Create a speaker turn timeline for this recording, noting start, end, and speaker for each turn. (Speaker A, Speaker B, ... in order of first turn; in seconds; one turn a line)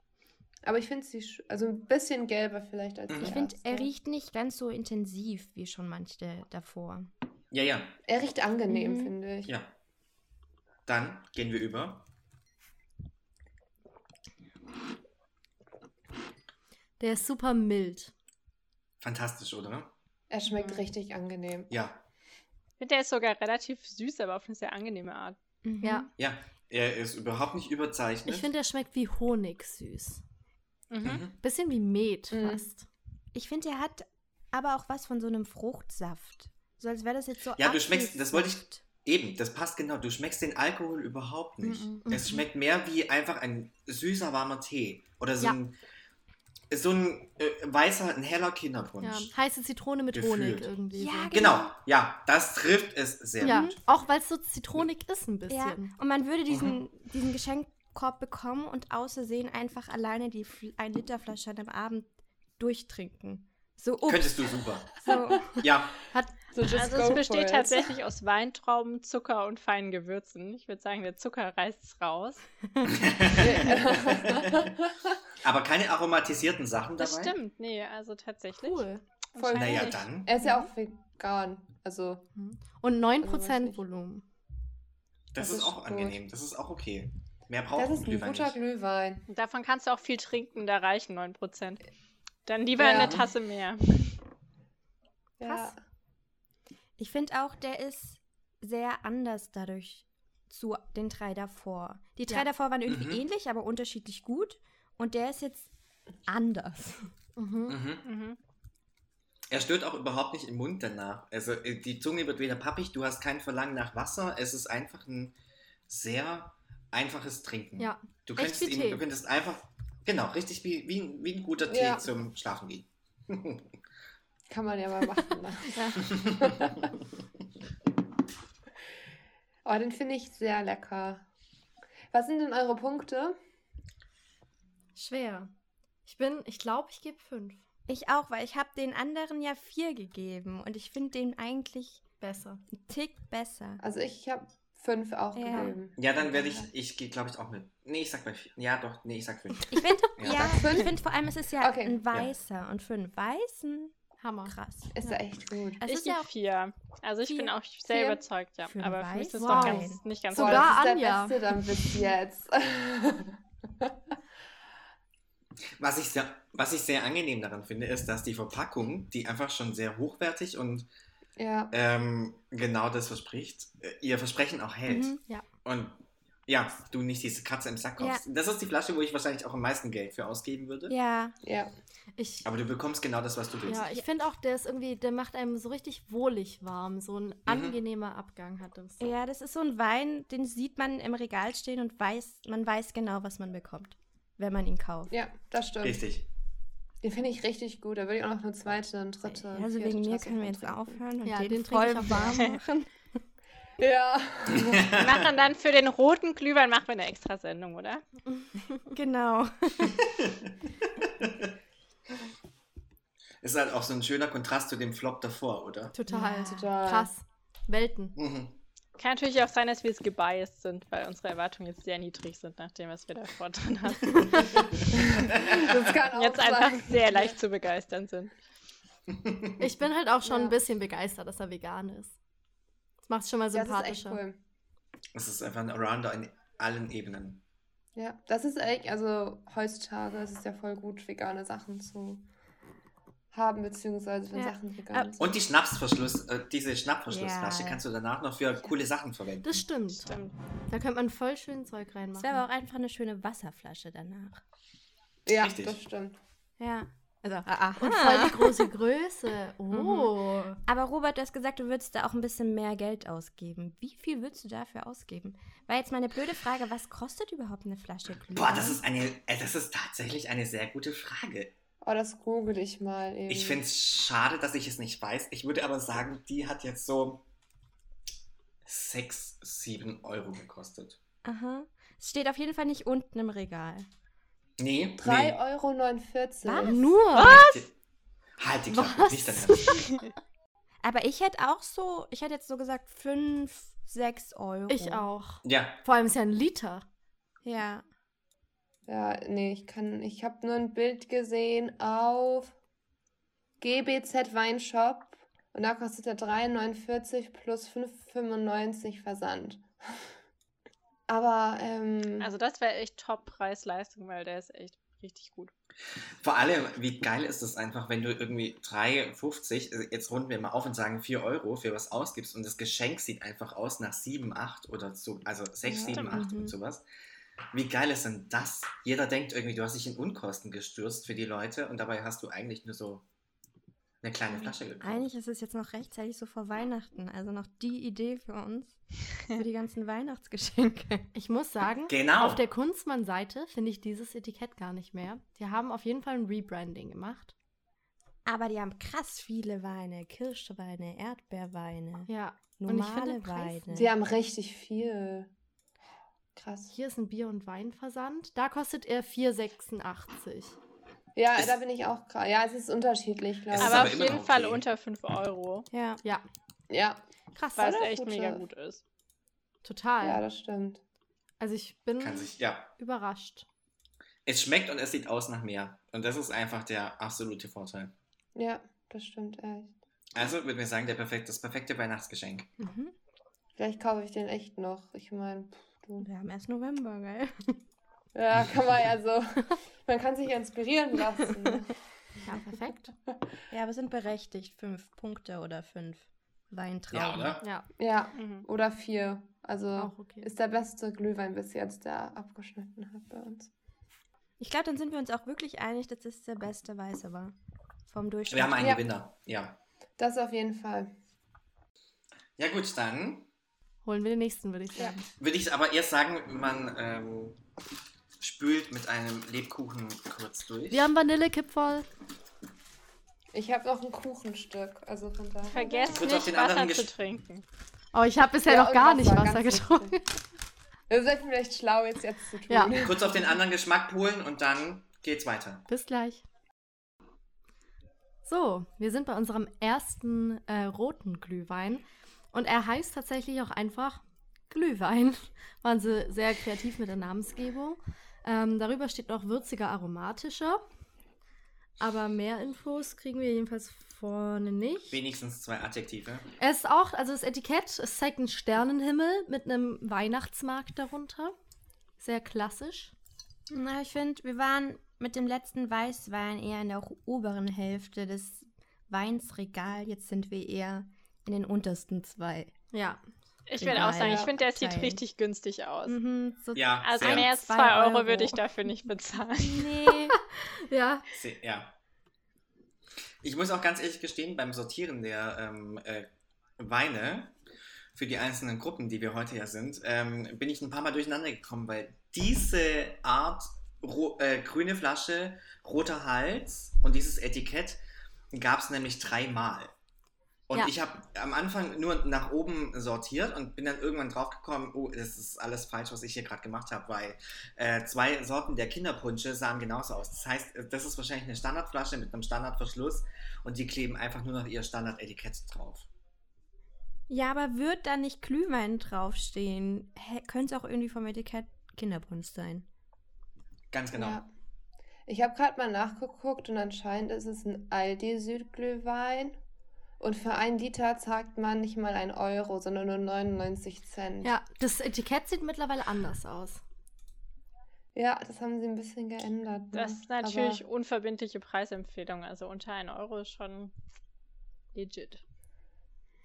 Speaker A: 0.6-3.9
Speaker B: 3.1-3.4
Speaker C: 3.2-7.1
Speaker B: 7.5-8.0
Speaker A: 8.1-9.5
Speaker C: 8.7-9.1
Speaker B: 9.5-9.7
Speaker B: 10.9-12.1
Speaker D: 17.0-18.1
Speaker B: 19.0-19.9
Speaker A: 20.3-21.7
Speaker B: 21.7-22.0
Speaker E: 22.8-25.4
Speaker C: 25.6-26.1
Speaker D: 25.8-26.1
Speaker B: 26.2-28.5
Speaker D: 28.3-30.2
Speaker E: 30.9-31.2
Speaker B: 31.0-31.4
Speaker D: 31.4-32.9
Speaker A: 32.3-32.6
Speaker C: 33.3-38.8
Speaker B: 37.6-45.8
Speaker C: 41.6-42.2
Speaker D: 42.0-42.4
Speaker B: 46.7-49.3
Speaker D: 49.0-51.4
Speaker B: 50.1-50.7
Speaker C: 50.9-51.8
Speaker B: 51.3-53.8
Speaker C: 53.4-53.8
Speaker D: 53.4-55.9
Speaker C: 55.5-65.7
Speaker B: 56.5-56.8
Speaker B: 64.1-66.0
Speaker A: 66.5-68.0
Speaker E: 66.7-72.4
Speaker B: 72.8-74.7
Speaker A: 73.3-75.1
Speaker B: 75.4-77.3
Speaker E: 77.0-80.0
Speaker D: 78.6-79.0
Speaker A: 79.4-82.3
Speaker B: 79.5-80.3
Speaker D: 82.3-84.2
Speaker A: 83.2-83.8
Speaker B: 85.3-88.6
Speaker A: 85.4-86.2
Speaker A: 87.8-89.3
Speaker E: 89.3-91.8
Speaker E: 92.5-94.1
Speaker A: 92.8-93.2
Speaker B: 92.9-93.3
Speaker A: 95.4-95.8
Speaker C: 97.0-105.7
Speaker B: 102.9-103.2
Speaker C: 106.2-107.1
Speaker D: 107.4-107.8
Speaker B: 107.7-108.0
Speaker E: 108.0-108.4
Speaker B: 109.5-115.3
Speaker B: 115.9-123.8
Speaker D: 117.8-119.0
Speaker A: 121.7-122.1
Speaker A: 124.5-126.9
Speaker D: 125.7-126.0
Speaker B: 126.2-126.7
Speaker A: 129.7-131.3
Speaker A: 132.1-133.4
Speaker D: 135.0-135.5
Speaker D: 136.1-137.6
Speaker C: 137.9-142.0
Speaker D: 142.2-142.6
Speaker C: 142.7-143.8
Speaker A: 143.8-146.7
Speaker C: 145.3-145.8
Speaker B: 146.0-150.6
Speaker C: 149.7-153.9
Speaker A: 150.3-150.9
Speaker A: 151.6-152.0
Speaker D: 154.2-154.5
Speaker C: 154.5-155.2
Speaker A: 154.9-155.8
Speaker C: 155.8-156.3
Speaker E: 155.8-160.8
Speaker C: 158.7-160.0
Speaker D: 159.4-161.7
Speaker A: 160.3-163.9
Speaker B: 165.8-170.9
Speaker A: 171.4-171.7
Speaker B: 171.7-180.9
Speaker C: 174.9-175.2
Speaker C: 180.9-181.3
Speaker A: 181.4-181.7
Speaker D: 182.2-182.5
Speaker B: 182.4-183.9
Speaker D: 183.7-189.1
Speaker B: 187.5-187.8
Speaker C: 189.0-195.1
Speaker A: 195.1-196.0
Speaker B: 195.8-196.3
Speaker A: 197.0-201.0
Speaker C: 199.4-202.9
Speaker D: 201.2-202.5
Speaker A: 203.8-205.0
Speaker B: 204.5-205.2
Speaker E: 204.9-208.0
Speaker D: 208.3-208.8
Speaker C: 208.8-210.1
Speaker B: 210.0-211.5
Speaker B: 213.4-215.9
Speaker D: 215.9-218.2
Speaker C: 216.1-216.6
Speaker A: 216.4-217.1
Speaker B: 218.2-218.6
Speaker E: 219.0-225.3
Speaker D: 224.2-224.6
Speaker A: 224.9-227.4
Speaker B: 225.4-225.7
Speaker E: 226.1-228.3
Speaker B: 229.1-229.5
Speaker D: 229.6-232.1
Speaker A: 230.3-230.6
Speaker D: 233.1-234.2
Speaker A: 233.5-234.4
Speaker B: 235.1-237.4
Speaker A: 237.9-242.3
Speaker A: 243.3-245.4
Speaker C: 244.3-245.1
Speaker B: 245.2-250.0
Speaker C: 247.1-247.8
Speaker D: 249.4-250.2
Speaker E: 250.1-250.3
Speaker D: 250.7-252.4
Speaker C: 252.2-254.4
Speaker A: 255.3-256.2
Speaker B: 255.3-255.8
Speaker C: 256.6-258.7
Speaker D: 257.3-260.6
Speaker C: 259.7-268.8
Speaker B: 268.3-271.5
Speaker A: 271.8-273.6
Speaker B: 273.3-277.2
Speaker B: 278.6-281.0
Speaker C: 281.2-283.9
Speaker B: 284.6-285.4
Speaker A: 285.0-286.9
Speaker C: 286.4-287.5
Speaker D: 286.6-287.6
Speaker B: 287.2-287.7
Speaker B: 288.4-289.9
Speaker D: 288.7-290.0
Speaker C: 290.8-295.1
Speaker D: 294.7-296.9
Speaker B: 295.4-295.8
Speaker C: 297.4-297.9
Speaker A: 298.9-302.6
Speaker A: 303.6-310.0
Speaker A: 311.1-312.3
Speaker E: 312.2-315.5
Speaker B: 316.2-326.8
Speaker A: 325.6-326.1
Speaker E: 325.9-326.3
Speaker C: 326.1-326.6
Speaker B: 327.5-333.0
Speaker B: 334.0-335.1
Speaker C: 334.8-341.1
Speaker D: 341.1-347.3
Speaker B: 341.9-342.4
Speaker C: 348.2-353.9
Speaker D: 352.1-353.7
Speaker A: 353.7-355.3
Speaker A: 356.4-356.8
Speaker D: 356.7-360.6
Speaker A: 361.1-364.1
Speaker B: 363.5-364.6
Speaker E: 363.6-365.7
Speaker C: 365.7-366.0
Speaker A: 366.7-367.0
Speaker D: 367.4-367.8
Speaker A: 367.6-368.4
Speaker E: 367.6-368.8
Speaker D: 369.6-370.2
Speaker A: 370.0-370.8
Speaker D: 371.4-373.5
Speaker B: 372.0-372.7
Speaker B: 374.3-377.9
Speaker A: 378.4-379.7
Speaker B: 380.1-382.5
Speaker C: 382.6-382.9
Speaker A: 383.6-386.1
Speaker C: 386.0-387.6
Speaker A: 388.1-391.7
Speaker D: 392.2-392.9
Speaker C: 393.5-397.4
Speaker B: 396.9-397.4
Speaker A: 397.8-403.5
Speaker E: 398.1-398.5
Speaker D: 399.8-400.3
Speaker C: 404.4-407.4
Speaker C: 407.9-408.7
Speaker B: 408.3-409.6
Speaker A: 408.6-408.8
Speaker A: 410.0-410.9
Speaker B: 412.4-413.3
Speaker D: 413.9-415.0
Speaker B: 415.2-417.4
Speaker B: 418.2-420.9
Speaker D: 420.7-421.9
Speaker A: 423.3-425.8
Speaker E: 425.5-427.4
Speaker B: 425.9-426.9
Speaker D: 427.9-430.0
Speaker A: 428.5-430.0
Speaker A: 430.9-433.3
Speaker D: 432.5-432.8
Speaker B: 432.7-435.7
Speaker D: 435.7-436.2
Speaker D: 438.2-450.6
Speaker D: 451.8-455.0
Speaker B: 454.9-456.3
Speaker D: 456.4-461.4
Speaker D: 462.0-462.9
Speaker C: 463.5-472.5
Speaker D: 472.7-473.0
Speaker E: 473.5-476.0
Speaker C: 473.6-475.0
Speaker A: 473.7-474.4
Speaker C: 475.9-478.4
Speaker B: 476.6-477.3
Speaker E: 476.8-479.9
Speaker C: 479.4-480.2
Speaker D: 480.1-481.1
Speaker B: 481.1-481.7
Speaker B: 483.2-487.4
Speaker B: 487.9-497.8
Speaker B: 498.3-499.7
Speaker B: 500.5-515.9
Speaker C: 517.1-522.7
Speaker B: 523.7-524.2
Speaker A: 524.0-524.3
Speaker A: 525.1-529.4
Speaker A: 530.0-534.3
Speaker D: 534.2-536.6
Speaker A: 538.0-540.6
Speaker E: 539.7-543.7
Speaker E: 544.7-545.2